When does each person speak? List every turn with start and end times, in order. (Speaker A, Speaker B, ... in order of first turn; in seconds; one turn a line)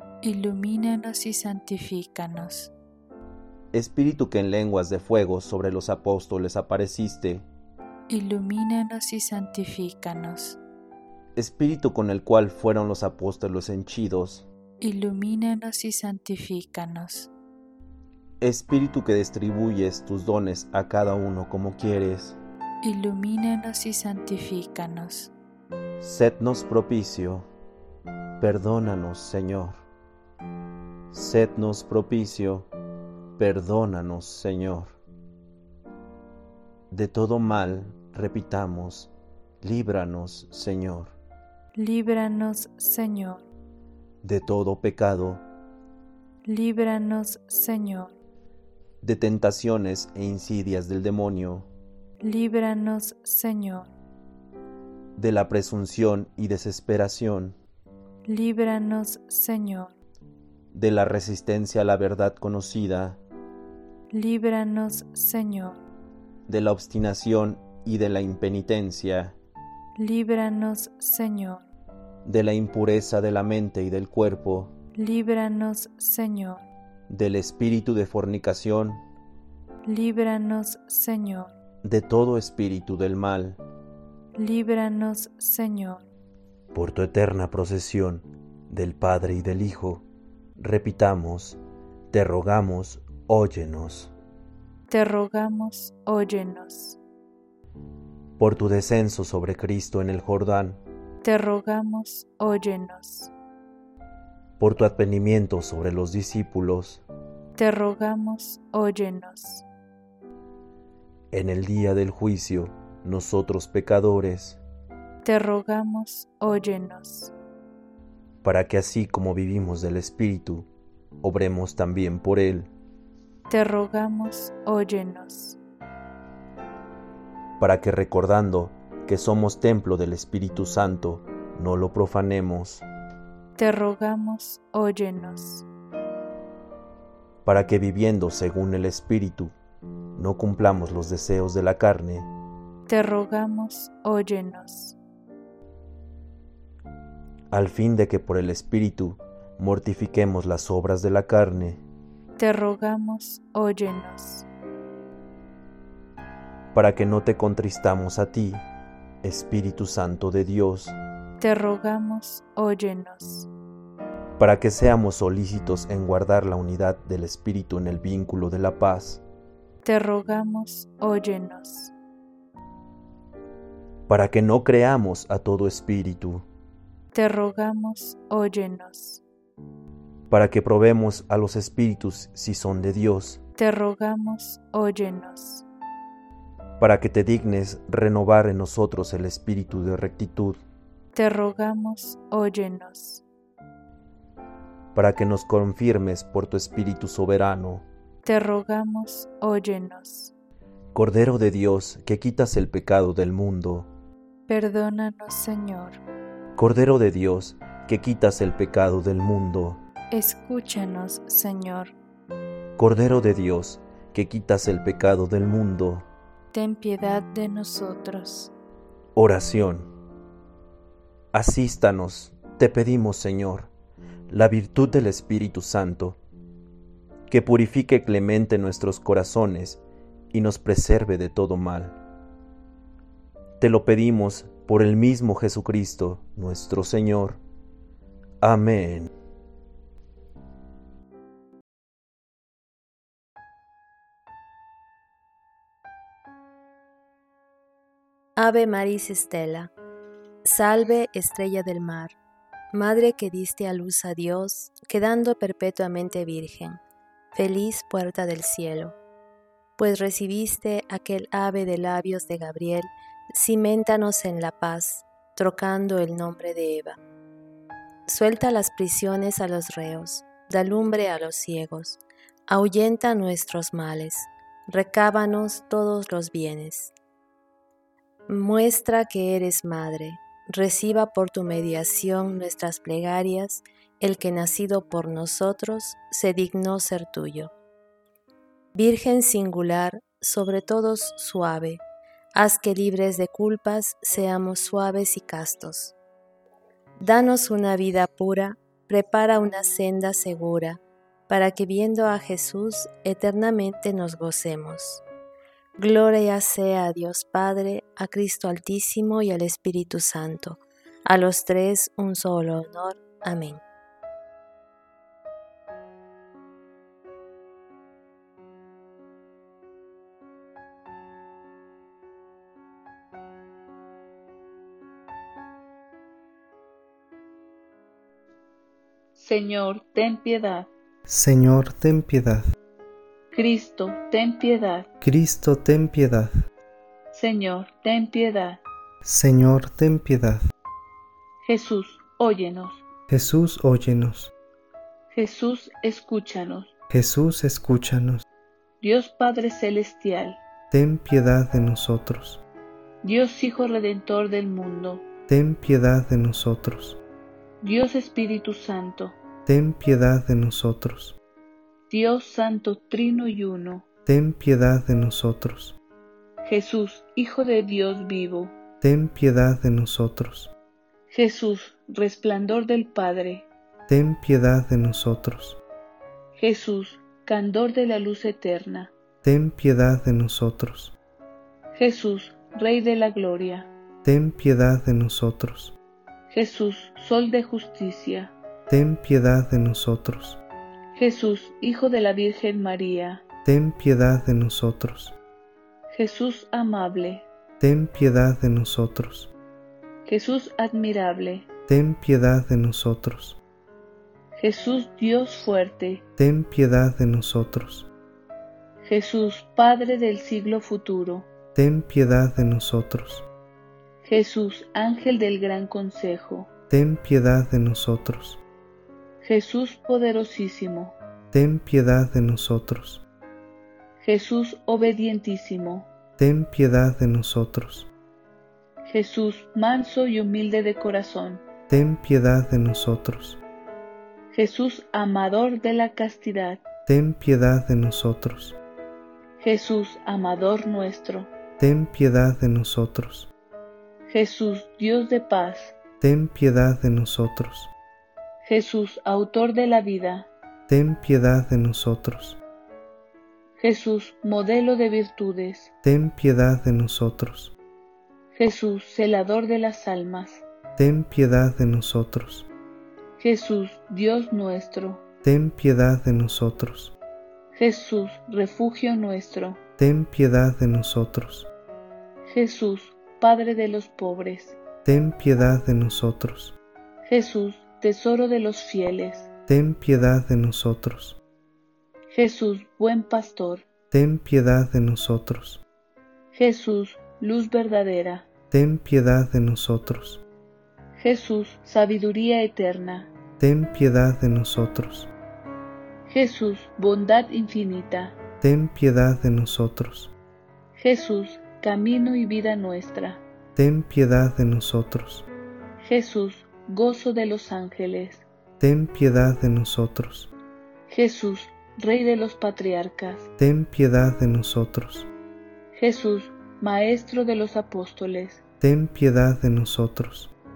Speaker A: 0.2-2.7
Speaker B: 3.7-7.5
Speaker A: 8.1-10.6
Speaker B: 11.3-14.4
Speaker A: 14.8-17.3
Speaker B: 18.4-22.4
Speaker A: 22.8-25.3
Speaker B: 26.0-27.5
Speaker B: 28.4-29.8
Speaker B: 31.1-32.7
Speaker B: 33.4-35.0
Speaker B: 36.9-39.1
Speaker B: 39.6-41.1
Speaker A: 41.7-43.4
Speaker B: 44.2-45.4
Speaker A: 46.4-48.1
Speaker B: 49.0-51.7
Speaker A: 52.2-53.9
Speaker B: 55.2-57.6
Speaker A: 58.2-59.9
Speaker B: 60.7-63.2
Speaker A: 64.1-65.8
Speaker B: 66.5-69.3
Speaker A: 70.0-71.7
Speaker B: 72.2-74.7
Speaker A: 75.0-76.7
Speaker B: 77.1-79.0
Speaker A: 79.8-81.5
Speaker B: 81.8-83.6
Speaker A: 84.3-86.1
Speaker B: 86.7-90.0
Speaker B: 90.6-91.6
Speaker B: 92.1-94.1
Speaker A: 94.9-97.0
Speaker B: 98.4-100.8
Speaker A: 101.2-103.3
Speaker B: 104.6-107.0
Speaker A: 107.6-109.6
Speaker B: 111.3-114.6
Speaker A: 115.2-117.3
Speaker B: 118.4-120.7
Speaker B: 121.2-122.7
Speaker A: 123.5-125.6
Speaker B: 127.6-132.8
Speaker A: 133.6-135.6
Speaker B: 137.4-139.5
Speaker B: 140.2-142.3
Speaker A: 142.9-144.9
Speaker B: 147.5-151.8
Speaker A: 152.4-154.4
Speaker B: 156.7-158.6
Speaker B: 159.2-160.9
Speaker A: 161.4-163.5
Speaker B: 164.4-169.2
Speaker A: 169.8-171.9
Speaker B: 174.1-176.4
Speaker A: 177.1-179.2
Speaker B: 180.3-183.4
Speaker A: 183.6-185.6
Speaker B: 186.8-190.6
Speaker A: 191.1-193.2
Speaker B: 194.9-197.8
Speaker A: 198.2-200.3
Speaker B: 200.9-203.9
Speaker A: 204.5-206.0
Speaker B: 206.6-209.8
Speaker A: 210.1-211.9
Speaker B: 212.8-216.1
Speaker A: 216.5-218.5
Speaker B: 219.2-219.9
Speaker B: 221.3-223.7
Speaker B: 224.3-226.2
Speaker B: 227.3-229.8
Speaker B: 230.3-232.0
Speaker B: 233.6-237.4
Speaker B: 238.4-239.1
Speaker C: 248.3-249.7
Speaker C: 250.4-252.1
Speaker C: 252.7-256.8
Speaker C: 257.3-258.9
Speaker C: 259.8-267.0
Speaker C: 268.1-276.9
Speaker C: 278.3-287.5
Speaker C: 288.7-291.8
Speaker C: 292.3-295.9
Speaker C: 297.0-305.0
Speaker C: 305.8-313.6
Speaker D: 329.1-330.7
Speaker E: 331.1-332.5
Speaker D: 333.3-334.9
Speaker E: 335.0-336.4
Speaker D: 337.1-338.6
Speaker E: 339.0-340.4
Speaker D: 341.4-342.8
Speaker E: 343.1-344.3
Speaker D: 345.1-346.7
Speaker E: 346.9-348.2
Speaker D: 348.8-350.4
Speaker E: 350.7-352.4
Speaker D: 353.0-355.0
Speaker E: 355.3-357.0
Speaker D: 357.6-359.1
Speaker E: 359.4-361.2
Speaker D: 361.9-363.8
Speaker E: 364.1-365.8
Speaker D: 366.4-368.5
Speaker E: 368.8-370.5
Speaker D: 371.1-373.5
Speaker E: 373.9-375.6
Speaker D: 376.4-378.9
Speaker E: 379.2-380.9
Speaker D: 381.7-383.7
Speaker E: 384.0-385.8
Speaker D: 386.3-388.3
Speaker E: 388.7-390.4
Speaker D: 390.9-393.2
Speaker E: 393.4-395.1
Speaker D: 395.9-397.2
Speaker E: 397.6-399.3
Speaker D: 400.1-401.4
Speaker E: 401.7-403.4
Speaker D: 404.4-406.1
Speaker E: 406.2-407.9
Speaker D: 408.8-411.3
Speaker E: 411.5-413.2
Speaker D: 414.0-416.5
Speaker E: 416.7-418.4
Speaker D: 419.2-420.9
Speaker E: 421.3-423.0
Speaker D: 424.0-425.9
Speaker E: 426.2-427.9
Speaker D: 428.9-431.4
Speaker E: 431.7-433.4
Speaker D: 434.3-436.6
Speaker E: 436.9-438.6
Speaker D: 439.4-441.3
Speaker E: 441.6-443.3
Speaker D: 444.1-445.7
Speaker E: 446.0-447.7
Speaker D: 448.4-450.3
Speaker E: 450.7-452.4
Speaker D: 453.6-455.7
Speaker E: 455.8-457.5
Speaker D: 458.3-460.4
Speaker E: 460.8-462.5
Speaker D: 463.2-465.0
Speaker E: 465.2-466.9
Speaker D: 467.5-469.6
Speaker E: 469.8-471.5
Speaker D: 472.3-474.6
Speaker E: 474.8-476.6
Speaker D: 477.0-479.3
Speaker E: 479.5-481.2
Speaker D: 482.1-483.6
Speaker E: 483.9-485.6
Speaker D: 486.3-488.2
Speaker E: 488.5-490.2
Speaker D: 491.0-493.1
Speaker E: 493.4-495.1
Speaker D: 496.1-498.1
Speaker E: 498.4-500.1
Speaker D: 500.7-503.2
Speaker E: 503.6-505.3
Speaker D: 505.8-508.2
Speaker E: 508.6-510.3
Speaker D: 510.9-513.3
Speaker E: 513.4-515.1
Speaker D: 515.7-518.4
Speaker E: 518.6-520.3